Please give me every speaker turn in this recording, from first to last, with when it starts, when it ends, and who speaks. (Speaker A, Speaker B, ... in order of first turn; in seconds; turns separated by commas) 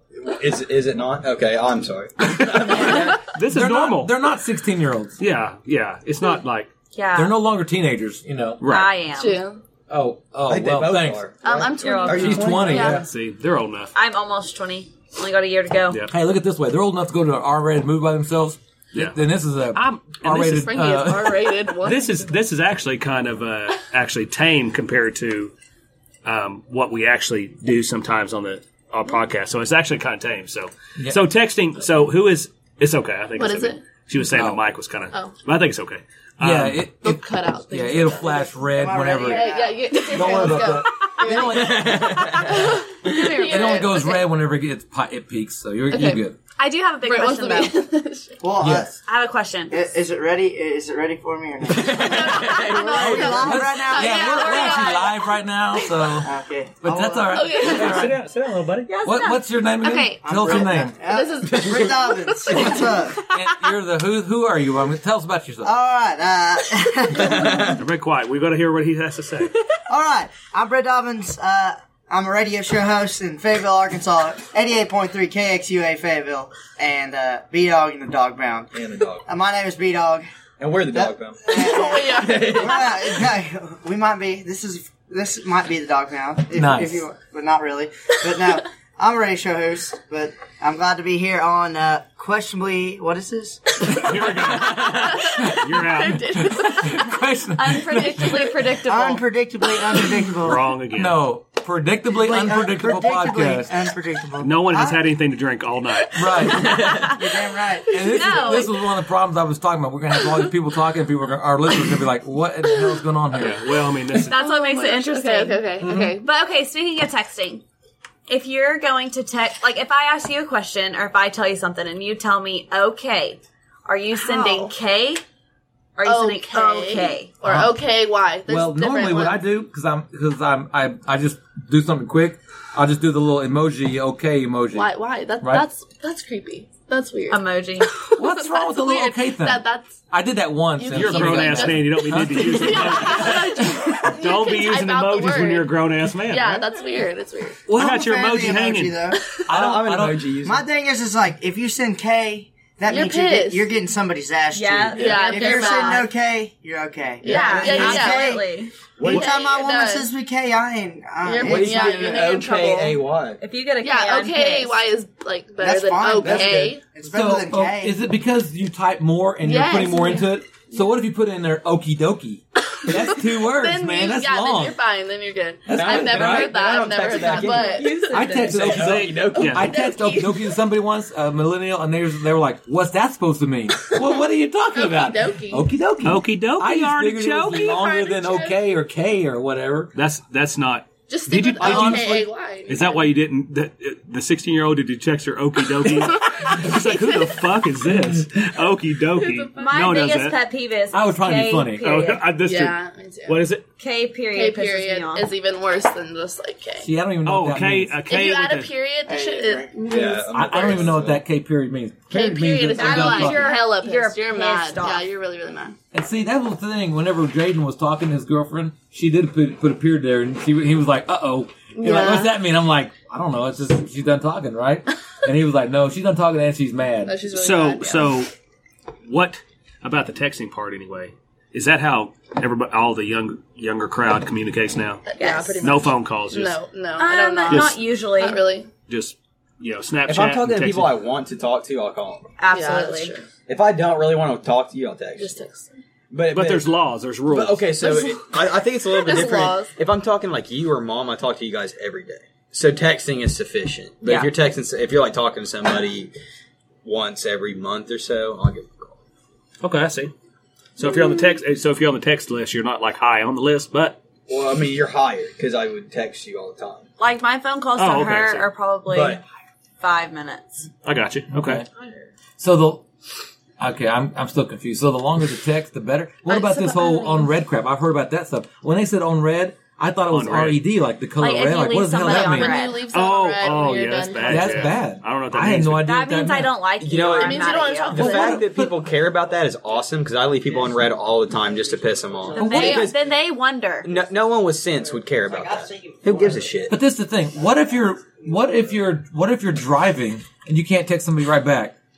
Speaker A: 0.1-3.2, Speaker B: 2.6-4.1, Speaker C: 3.5-5.2, Speaker B: 5.2-6.7, Speaker D: 6.9-7.3, Speaker C: 7.1-8.6, Speaker B: 8.6-8.9, Speaker D: 8.6-9.4, Speaker E: 9.1-9.6, Speaker C: 9.9-11.2, Speaker A: 10.4-13.0, Speaker E: 11.4-13.0, Speaker D: 11.8-12.8, Speaker C: 12.1-13.1, Speaker B: 12.7-13.9, Speaker D: 13.9-16.0, Speaker C: 16.1-21.5, Speaker B: 18.9-19.2, Speaker B: 19.7-20.7, Speaker E: 20.4-22.2, Speaker B: 21.8-25.5, Speaker B: 26.2-36.9, Speaker E: 33.4-33.8, Speaker C: 34.3-34.6, Speaker C: 36.4-39.5, Speaker E: 37.0-38.5, Speaker F: 38.5-40.8, Speaker E: 39.2-44.0, Speaker C: 40.1-42.5, Speaker A: 41.4-42.6, Speaker D: 43.0-44.2, Speaker C: 43.4-46.4, Speaker E: 45.9-46.2, Speaker D: 46.6-47.8, Speaker E: 47.0-48.4, Speaker F: 48.4-49.0, Speaker C: 48.6-48.9, Speaker D: 49.0-49.8, Speaker F: 49.7-54.1, Speaker A: 51.7-53.2, Speaker E: 51.8-55.1, Speaker D: 52.4-55.1, Speaker C: 53.0-56.3, Speaker F: 56.2-57.5, Speaker C: 56.8-58.2, Speaker E: 57.3-58.1, Speaker B: 57.6-58.9, Speaker D: 58.9-60.6, Speaker C: 59.0-60.9, Speaker F: 60.2-63.2, Speaker E: 61.1-63.0, Speaker C: 63.3-65.7, Speaker F: 65.6-67.8, Speaker A: 67.2-67.8, Speaker B: 67.8-69.5, Speaker F: 69.9-78.7, Speaker A: 78.7-79.2, Speaker F: 79.2-80.3, Speaker A: 80.6-82.8, Speaker F: 80.9-94.2, Speaker E: 81.5-83.0, Speaker C: 86.5-87.0, Speaker B: 93.9-96.3, Speaker C: 94.5-98.4, Speaker E: 94.7-97.1, Speaker D: 97.5-99.2, Speaker E: 98.0-98.5, Speaker F: 98.8-100.7, Speaker B: 100.3-101.2, Speaker C: 100.9-103.7, Speaker F: 102.1-105.0, Speaker B: 104.4-106.7, Speaker C: 106.1-106.9, Speaker D: 106.5-107.3, Speaker F: 106.8-107.9, Speaker C: 107.9-113.6, Speaker D: 107.9-108.8, Speaker B: 113.3-114.4, Speaker D: 114.3-117.6, Speaker E: 114.3-116.2, Speaker C: 115.8-116.1, Speaker D: 118.3-125.2, Speaker E: 124.1-124.7, Speaker D: 126.0-127.4, Speaker E: 126.0-129.4, Speaker C: 127.4-127.7, Speaker C: 128.5-134.9, Speaker E: 134.7-139.9, Speaker C: 135.4-135.7, Speaker D: 137.3-137.9, Speaker C: 138.2-143.3, Speaker E: 140.8-145.7, Speaker B: 140.9-146.6, Speaker E: 146.3-147.6, Speaker B: 147.7-149.0, Speaker F: 147.7-149.2, Speaker C: 149.5-150.3, Speaker A: 149.5-150.6, Speaker F: 150.4-158.4, Speaker E: 152.9-153.7, Speaker D: 154.5-156.1, Speaker E: 155.0-156.1, Speaker E: 157.2-158.4, Speaker D: 157.2-158.7, Speaker A: 159.0-159.3, Speaker F: 159.0-162.3, Speaker E: 159.0-160.1, Speaker E: 161.2-163.0, Speaker A: 161.4-163.4, Speaker D: 163.4-164.8, Speaker E: 163.8-166.8, Speaker F: 165.6-167.9, Speaker A: 166.2-166.7, Speaker C: 167.0-174.8, Speaker E: 169.4-170.3, Speaker E: 172.9-178.2, Speaker C: 175.7-176.5, Speaker A: 175.7-179.8, Speaker D: 177.1-178.6, Speaker C: 178.1-189.9, Speaker B: 179.3-179.7, Speaker E: 179.4-180.6, Speaker E: 184.7-185.7, Speaker B: 186.0-187.6, Speaker E: 187.6-188.6, Speaker B: 189.9-200.4, Speaker E: 191.1-193.1, Speaker C: 191.6-192.3, Speaker E: 195.8-197.5, Speaker C: 197.8-198.4, Speaker E: 199.1-199.9, Speaker D: 199.6-202.3, Speaker C: 200.9-201.9, Speaker B: 201.8-203.6, Speaker E: 202.4-203.4, Speaker D: 203.8-205.3, Speaker E: 204.3-206.9, Speaker C: 206.8-207.9, Speaker B: 207.2-208.7, Speaker E: 208.1-210.8, Speaker F: 209.1-209.8, Speaker A: 209.8-211.2, Speaker C: 210.3-213.5, Speaker E: 212.1-215.8, Speaker D: 212.7-215.1, Speaker C: 215.9-227.1, Speaker E: 221.7-222.4, Speaker E: 227.0-228.1, Speaker B: 227.3-228.3, Speaker B: 229.1-235.1, Speaker E: 235.1-238.7, Speaker D: 235.2-235.7, Speaker B: 235.6-236.6, Speaker D: 237.0-238.4, Speaker B: 237.5-237.8, Speaker B: 238.9-241.0, Speaker A: 240.1-242.3, Speaker D: 242.4-243.1, Speaker E: 242.5-243.3, Speaker A: 243.5-245.4, Speaker E: 245.2-245.7, Speaker A: 246.1-246.7, Speaker B: 246.3-247.7, Speaker A: 247.3-256.1, Speaker E: 247.8-248.3, Speaker E: 248.8-249.7, Speaker A: 256.8-259.0, Speaker B: 259.6-260.1, Speaker B: 260.8-264.0, Speaker A: 264.3-266.9, Speaker D: 267.0-269.2, Speaker B: 267.8-268.5, Speaker A: 268.9-269.2, Speaker D: 269.8-270.7, Speaker B: 270.8-271.6, Speaker C: 271.3-271.6, Speaker C: 272.4-272.8, Speaker C: 273.6-282.6, Speaker D: 276.2-277.3, Speaker B: 280.1-280.6, Speaker D: 281.2-282.9, Speaker E: 282.0-284.7, Speaker B: 282.9-285.9, Speaker C: 284.2-286.5, Speaker D: 285.8-288.2, Speaker A: 286.8-293.1, Speaker E: 287.0-288.4, Speaker C: 287.9-288.8, Speaker D: 292.3-293.9, Speaker C: 292.4-292.9, Speaker A: 293.8-296.8, Speaker C: 296.7-301.7